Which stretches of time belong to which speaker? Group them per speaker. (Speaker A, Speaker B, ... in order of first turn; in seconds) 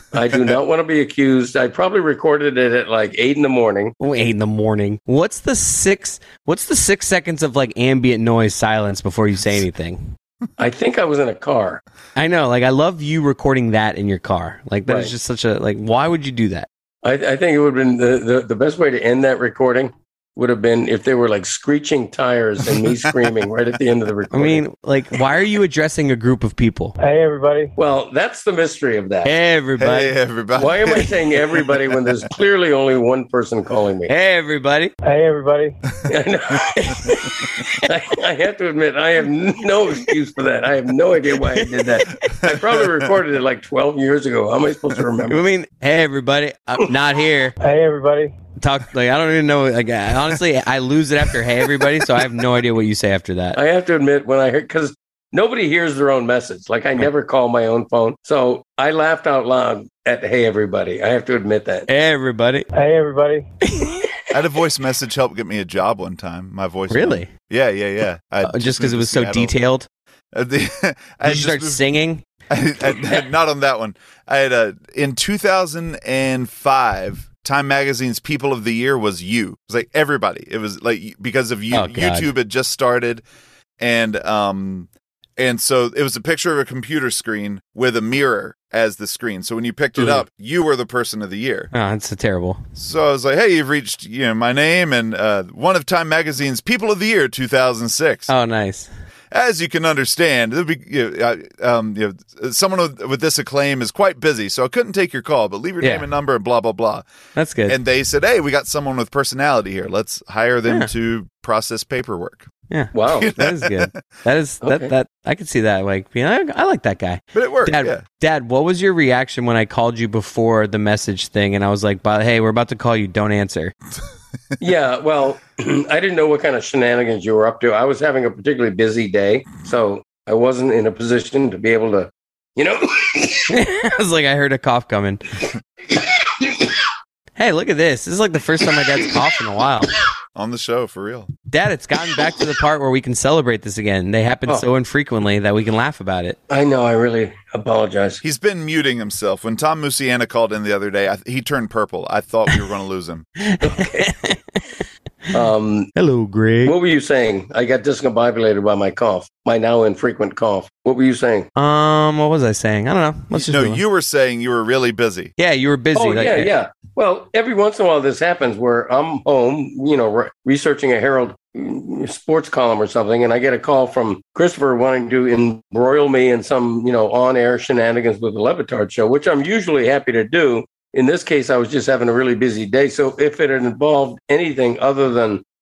Speaker A: 0.1-3.9, 10.6-11.8, 14.9-15.1, 17.0-24.6, 27.8-29.3, 30.6-34.1, 36.1-45.4, 53.5-61.9, 112.9-113.3, 114.6-114.9, 124.6-133.5, 146.5-148.2, 153.6-154.1, 155.3-155.9, 156.7-161.5, 165.9-185.4
Speaker B: 4.0-10.1, 12.2-16.7, 24.3-26.9, 29.2-30.1, 34.1-34.9, 41.5-42.1, 45.3-47.5, 48.6-53.6, 61.9-62.7, 63.7-64.0, 66.9-67.3, 68.4-69.9, 71.2-72.2, 81.7-82.3, 91.7-92.6, 98.3-98.9, 105.8-106.0, 107.3-107.8, 112.7-123.7, 133.5-135.2, 137.4-139.9, 141.5-146.4, 153.4-154.6, 155.9-156.8, 161.6-163.8, 165.4-166.5
Speaker C: 22.8-23.3, 29.8-32.1, 64.3-69.5, 70.3-71.8, 72.5-83.2, 83.8-91.7, 92.8-98.3, 99.3-107.1, 107.7-112.5, 113.1-114.0, 117.3-118.0, 140.3-141.3, 148.2-153.2, 163.3-165.3
Speaker D: 27.1-27.6, 35.1-35.7, 47.7-48.3, 62.8-63.4